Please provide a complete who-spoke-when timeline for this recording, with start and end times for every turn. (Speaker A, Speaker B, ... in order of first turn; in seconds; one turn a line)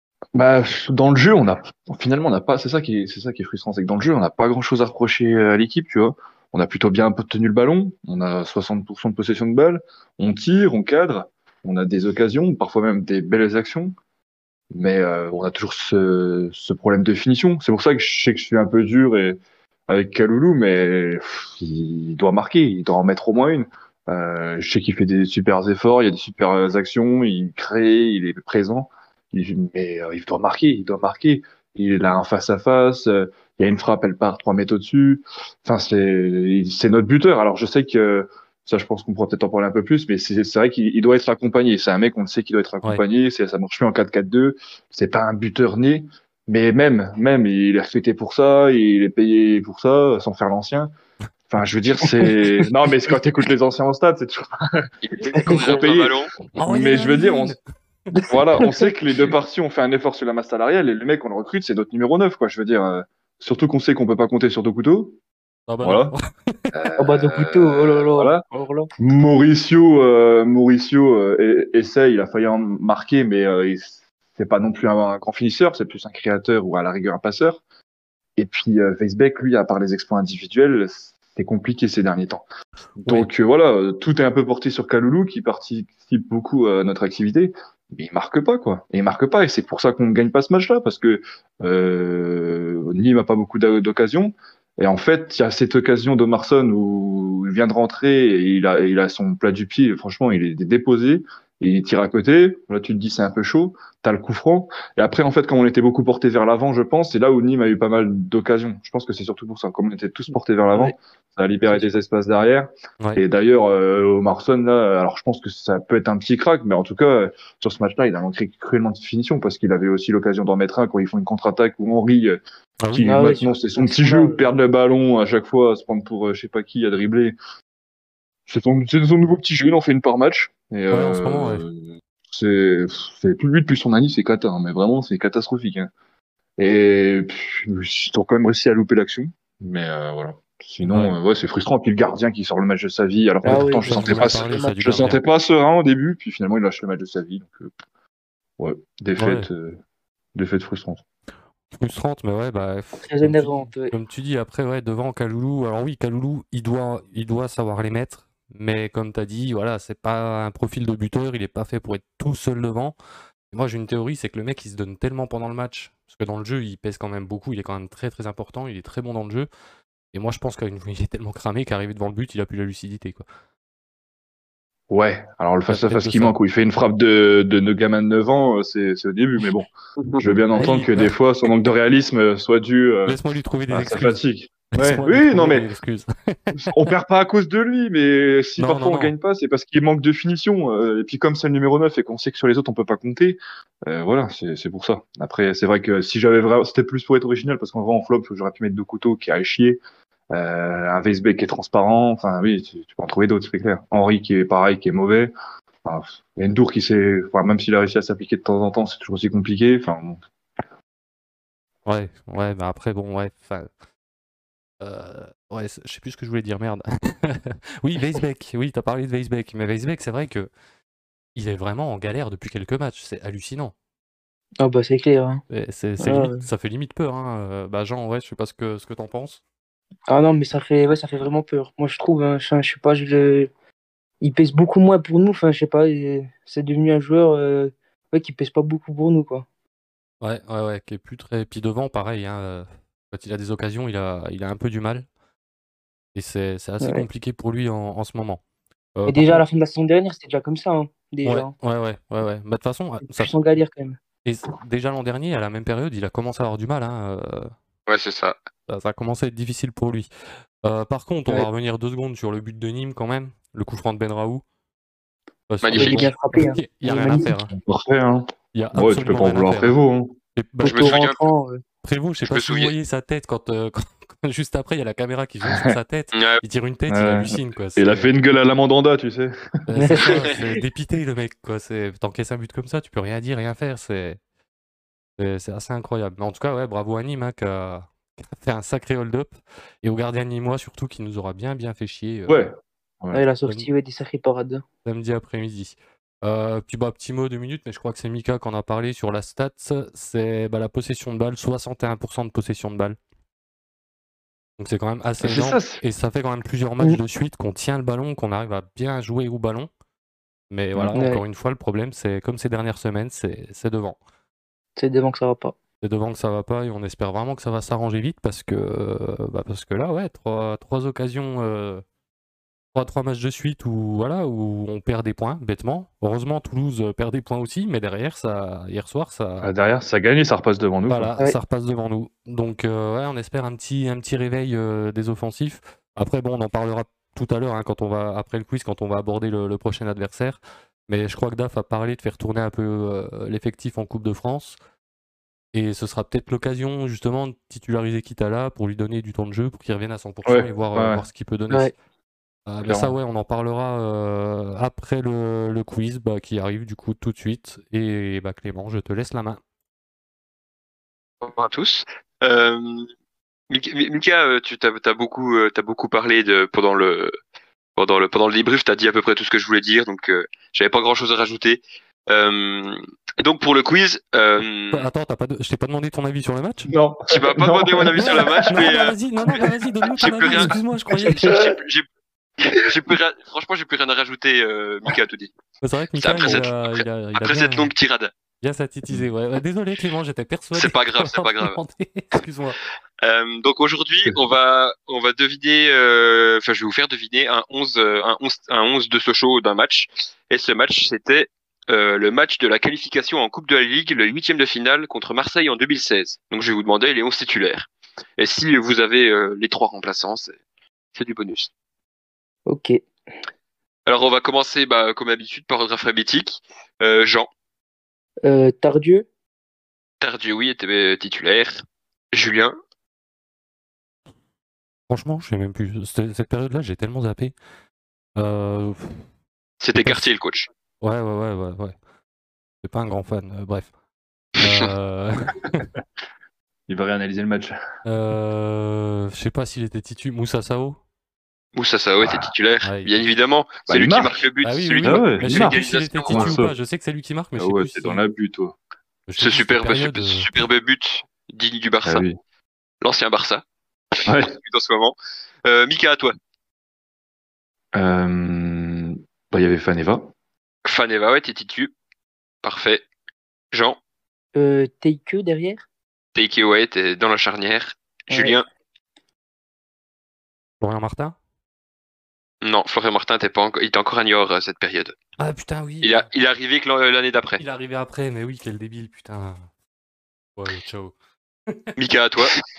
Speaker A: 0.3-13.9
Speaker A: 14.7-50.9
Speaker A: 51.5-54.9
Speaker B: 55.0-56.3
Speaker C: 55.4-55.8
Speaker A: 55.5-57.6
Speaker D: 56.6-57.6
Speaker C: 58.1-58.9
Speaker A: 58.3-65.2
Speaker D: 65.7-66.6
Speaker A: 65.8-66.1
Speaker A: 66.7-68.4
Speaker C: 67.0-68.9
Speaker A: 69.0-77.6
Speaker A: 78.4-82.5
Speaker D: 83.0-83.3
Speaker A: 83.0-122.4
Speaker D: 122.8-123.2
Speaker A: 122.9-127.4
Speaker C: 123.0-124.5
Speaker A: 128.5-135.9
Speaker D: 130.9-131.7
Speaker A: 136.6-147.7
Speaker D: 140.8-141.2
Speaker C: 143.4-144.8
Speaker D: 143.5-145.2
Speaker A: 148.6-149.8
Speaker D: 149.2-149.5
Speaker A: 150.3-151.0
Speaker D: 151.7-162.9
Speaker C: 153.0-153.9
Speaker D: 163.5-169.5
Speaker D: 170.1-173.2
Speaker A: 174.9-183.2
Speaker D: 175.7-176.3
Speaker D: 180.5-181.1
Speaker D: 183.1-184.2
Speaker A: 183.7-185.7
Speaker D: 184.8-186.8
Speaker A: 186.6-199.8
Speaker D: 188.6-189.1
Speaker A: 200.3-205.3
Speaker A: 205.8-210.2
Speaker D: 211.9-213.7
Speaker D: 214.8-220.5
Speaker D: 221.4-223.7
Speaker C: 224.6-225.4
Speaker D: 225.5-229.4
Speaker C: 226.0-226.5
Speaker C: 230.1-233.5
Speaker C: 234.2-239.5
Speaker D: 240.2-245.1
Speaker D: 246.2-248.4
Speaker D: 249.0-249.4
Speaker C: 249.1-251.5
Speaker D: 251.2-253.3
Speaker C: 253.1-254.0
Speaker D: 254.2-257.5
Speaker B: 257.9-258.4
Speaker D: 258.7-260.1
Speaker D: 260.6-264.4
Speaker D: 265.5-267.5
Speaker B: 265.6-266.1
Speaker C: 265.7-267.3
Speaker A: 267.5-270.2
Speaker D: 268.5-269.8
Speaker D: 270.4-271.0
Speaker C: 270.6-271.6
Speaker B: 270.6-271.2
Speaker D: 271.8-278.1
Speaker B: 272.3-272.7
Speaker A: 275.4-275.8
Speaker B: 276.1-276.4
Speaker A: 276.9-279.9
Speaker D: 279.7-284.2
Speaker C: 279.8-280.4
Speaker D: 285.2-292.4
Speaker A: 292.3-293.2
Speaker C: 293.1-294.6
Speaker D: 294.9-303.0
Speaker D: 304.6-309.7
Speaker A: 305.2-305.8
Speaker D: 310.5-314.0
Speaker C: 310.9-311.2
Speaker C: 314.8-315.6
Speaker D: 315.8-321.8
Speaker D: 322.7-329.5
Speaker A: 329.4-331.1
Speaker D: 330.9-344.6
Speaker D: 345.5-351.7
Speaker A: 350.2-351.1
Speaker D: 352.5-359.4
Speaker A: 352.6-352.9
Speaker B: 361.2-362.9
Speaker B: 363.5-367.1
Speaker B: 367.8-374.9
Speaker D: 374.7-376.7
Speaker A: 376.7-378.7
Speaker B: 377.1-378.9
Speaker D: 378.0-381.4
Speaker B: 379.9-381.9
Speaker A: 381.1-381.6
Speaker B: 382.5-385.3
Speaker D: 385.6-387.7
Speaker B: 386.0-388.1
Speaker D: 388.4-392.6
Speaker B: 390.5-391.6
Speaker B: 393.0-410.4
Speaker B: 410.9-411.5
Speaker C: 412.5-412.8
Speaker B: 413.9-417.3
Speaker C: 418.2-419.1
Speaker B: 420.0-422.6
Speaker D: 424.9-427.4
Speaker D: 428.2-429.0
Speaker B: 429.6-430.5
Speaker D: 430.8-431.8
Speaker D: 432.6-433.7
Speaker D: 434.4-435.7
Speaker A: 436.7-437.6
Speaker D: 437.9-440.8
Speaker B: 441.6-446.4
Speaker A: 442.0-442.3
Speaker D: 442.6-442.9
Speaker A: 443.7-444.2
Speaker D: 444.4-448.0
Speaker A: 444.8-446.6
Speaker A: 447.4-448.6
Speaker D: 449.1-450.3
Speaker B: 449.2-452.1
Speaker A: 451.9-452.2
Speaker B: 452.8-453.4
Speaker A: 454.1-454.4
Speaker B: 454.2-456.1
Speaker A: 457.7-460.1
Speaker B: 460.6-461.7
Speaker B: 462.4-462.9
Speaker B: 463.5-463.8
Speaker C: 464.4-465.6
Speaker B: 466.1-468.4
Speaker C: 468.1-468.4
Speaker D: 470.6-471.2
Speaker B: 472.4-475.0
Speaker D: 475.2-476.1
Speaker B: 475.8-477.4
Speaker D: 477.4-479.4
Speaker D: 480.4-480.9
Speaker B: 481.8-482.4